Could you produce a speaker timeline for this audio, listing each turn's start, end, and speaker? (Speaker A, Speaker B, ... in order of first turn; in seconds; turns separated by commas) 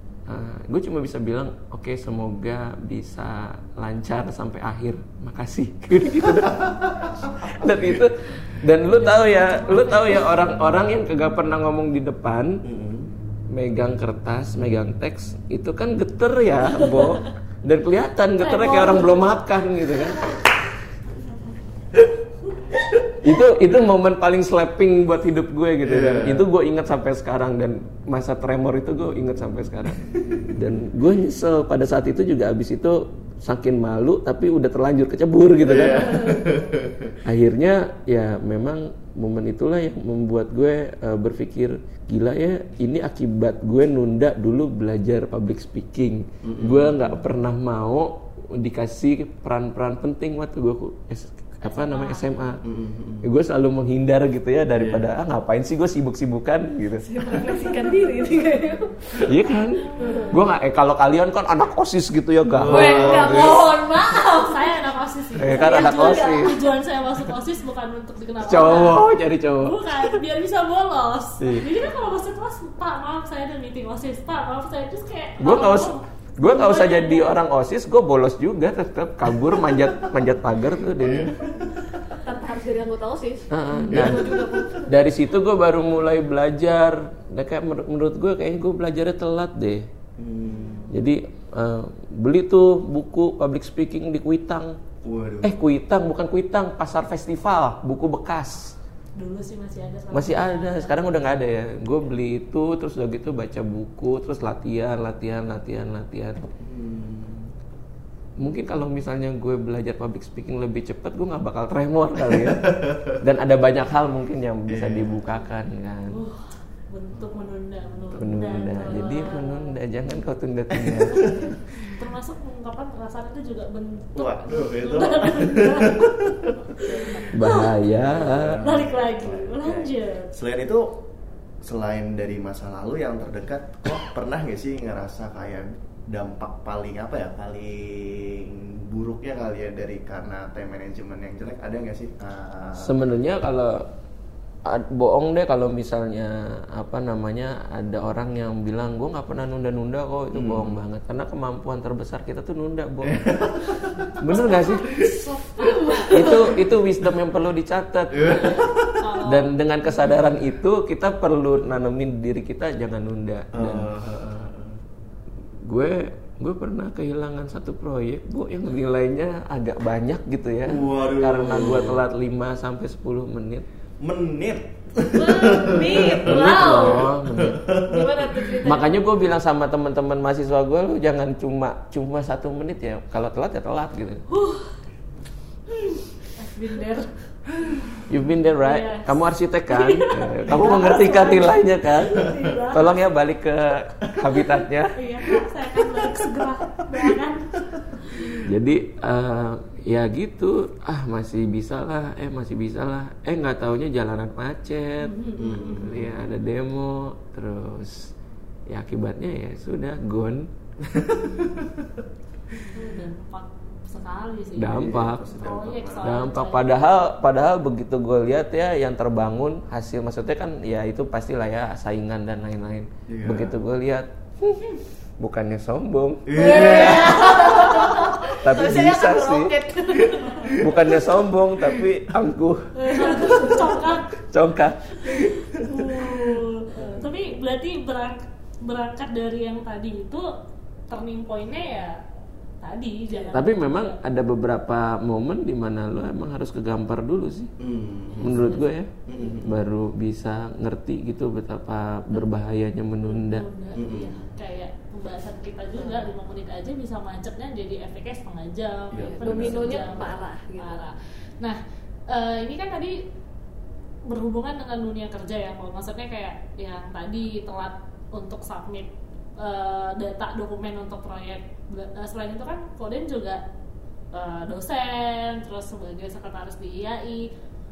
Speaker A: 0.3-12.6, Speaker B: 6.5-8.1, Speaker C: 8.8-10.3, Speaker B: 12.6-13.1, Speaker A: 13.5-20.3, Speaker C: 18.4-19.4, Speaker A: 23.2-36.5, Speaker B: 25.8-26.5, Speaker B: 30.2-30.5, Speaker B: 35.6-37.1, Speaker A: 37.2-52.6, Speaker B: 46.4-47.0, Speaker C: 51.6-52.5, Speaker B: 52.6-53.3, Speaker A: 53.2-57.1, Speaker B: 54.7-55.1, Speaker D: 57.0-60.3, Speaker A: 59.2-63.7, Speaker C: 59.8-60.4, Speaker B: 62.5-63.6, Speaker D: 62.7-64.8, Speaker C: 64.2-77.4, Speaker A: 65.4-66.6, Speaker D: 65.4-66.6, Speaker A: 68.4-70.2, Speaker A: 75.4-81.3, Speaker B: 79.7-80.1, Speaker B: 80.8-82.0, Speaker D: 82.2-85.0, Speaker A: 83.5-89.9, Speaker B: 83.9-84.8, Speaker B: 90.2-90.9, Speaker D: 90.5-90.9, Speaker A: 90.9-94.8, Speaker B: 95.0-95.6, Speaker A: 95.4-98.8, Speaker C: 99.2-101.3, Speaker A: 100.1-106.4, Speaker B: 106.6-107.5, Speaker A: 108.4-116.2, Speaker B: 112.3-113.2, Speaker B: 114.7-115.3, Speaker C: 116.1-119.8, Speaker B: 117.1-117.5, Speaker A: 118.1-121.5, Speaker B: 120.7-121.5, Speaker C: 121.8-127.8, Speaker B: 124.1-127.3, Speaker A: 127.3-128.6, Speaker B: 127.9-131.0, Speaker C: 128.6-130.3, Speaker B: 131.6-142.9, Speaker A: 142.8-143.9, Speaker A: 144.6-153.3, Speaker B: 150.3-150.8, Speaker B: 153.0-154.2, Speaker A: 154.2-154.9, Speaker C: 154.3-156.5, Speaker D: 154.4-156.5, Speaker A: 156.1-158.6, Speaker B: 158.1-159.1, Speaker C: 158.2-159.5, Speaker A: 159.2-163.9, Speaker B: 163.5-164.8, Speaker A: 165.6-173.7, Speaker B: 170.7-172.0, Speaker B: 174.0-178.6, Speaker D: 175.1-177.1, Speaker A: 176.2-177.7, Speaker D: 177.8-179.0, Speaker A: 178.6-184.2, Speaker C: 184.3-184.7, Speaker C: 186.3-188.0, Speaker A: 188.1-194.9, Speaker C: 188.6-189.2, Speaker C: 189.7-193.0, Speaker C: 194.9-198.4, Speaker A: 198.4-208.1, Speaker C: 205.2-205.6, Speaker D: 205.2-205.9, Speaker B: 205.4-206.1, Speaker A: 208.7-210.5, Speaker B: 210.8-211.9, Speaker C: 212.7-216.7, Speaker A: 214.5-215.4, Speaker B: 214.7-216.2, Speaker A: 216.0-229.6, Speaker B: 223.1-223.5, Speaker B: 226.2-227.7, Speaker D: 226.3-230.9, Speaker B: 229.9-231.1, Speaker A: 230.6-235.3, Speaker C: 232.7-234.1, Speaker D: 232.9-233.9, Speaker C: 235.2-240.3, Speaker B: 235.3-235.6, Speaker B: 236.8-237.1, Speaker C: 240.9-242.0, Speaker C: 242.6-244.0, Speaker A: 243.3-247.5, Speaker B: 247.6-248.5, Speaker C: 248.2-248.7, Speaker A: 248.2-248.9, Speaker B: 249.1-249.6, Speaker D: 249.1-249.4, Speaker A: 249.4-253.5, Speaker C: 253.0-263.0, Speaker B: 253.7-254.2, Speaker D: 255.7-256.1, Speaker B: 258.9-260.1, Speaker D: 259.1-260.8, Speaker C: 264.1-273.4, Speaker C: 274.1-277.3